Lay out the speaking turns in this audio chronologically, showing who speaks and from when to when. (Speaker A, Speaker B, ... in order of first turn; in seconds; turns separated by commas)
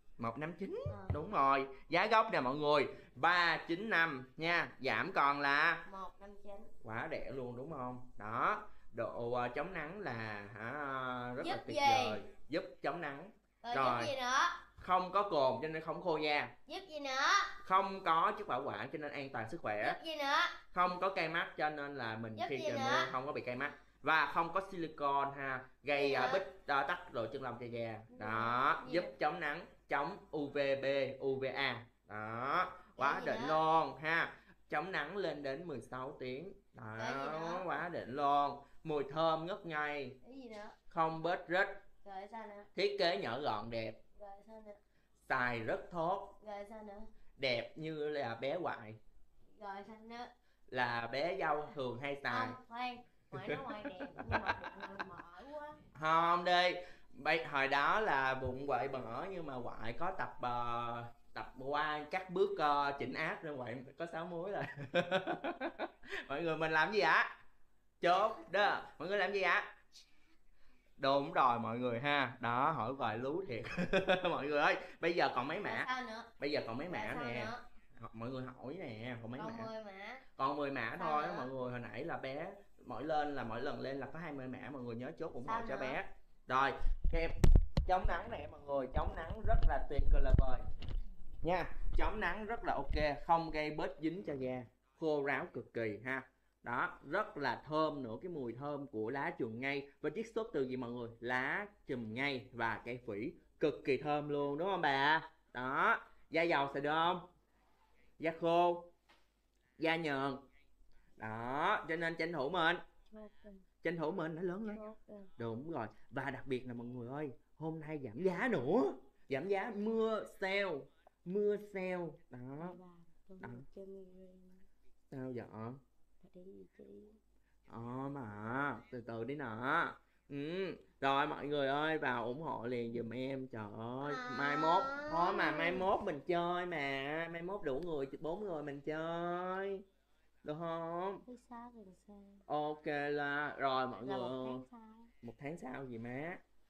Speaker A: 0.2-5.8, Speaker B: 0.9-1.1, Speaker B: 5.9-6.7, Speaker A: 6.8-14.1, Speaker B: 11.4-12.2, Speaker B: 13.6-14.6, Speaker A: 14.8-16.5, Speaker B: 16.6-17.6, Speaker A: 17.6-20.0, Speaker B: 19.8-20.6, Speaker A: 20.7-40.1, Speaker B: 22.4-23.1, Speaker B: 25.9-26.4, Speaker B: 28.1-29.1, Speaker B: 33.0-33.6, Speaker B: 37.0-37.7, Speaker B: 40.2-40.8, Speaker A: 40.9-41.8, Speaker B: 42.0-42.7, Speaker A: 42.7-44.0, Speaker B: 44.1-44.8, Speaker A: 45.2-46.4, Speaker B: 46.4-47.1, Speaker A: 47.4-49.0, Speaker B: 49.6-50.3, Speaker A: 50.7-52.5, Speaker B: 52.3-55.8, Speaker A: 53.3-54.4, Speaker A: 55.9-67.3, Speaker A: 68.0-69.7, Speaker B: 68.2-68.7, Speaker A: 71.0-75.9, Speaker B: 75.6-76.3, Speaker A: 76.4-79.7, Speaker B: 76.8-77.6, Speaker B: 79.4-80.2, Speaker A: 80.4-90.6, Speaker B: 81.0-81.5, Speaker B: 85.4-86.0, Speaker A: 91.4-107.2, Speaker A: 108.2-108.9, Speaker A: 109.8-110.4, Speaker A: 111.2-112.8, Speaker B: 113.1-113.6, Speaker A: 113.8-114.8, Speaker B: 114.7-115.3, Speaker A: 115.4-122.8, Speaker B: 122.6-124.6, Speaker A: 125.1-125.8, Speaker B: 126.2-127.2, Speaker A: 127.7-139.8, Speaker B: 134.0-135.8, Speaker A: 140.4-141.2, Speaker B: 141.2-142.4, Speaker A: 142.5-144.6, Speaker B: 144.1-145.1, Speaker A: 145.2-146.4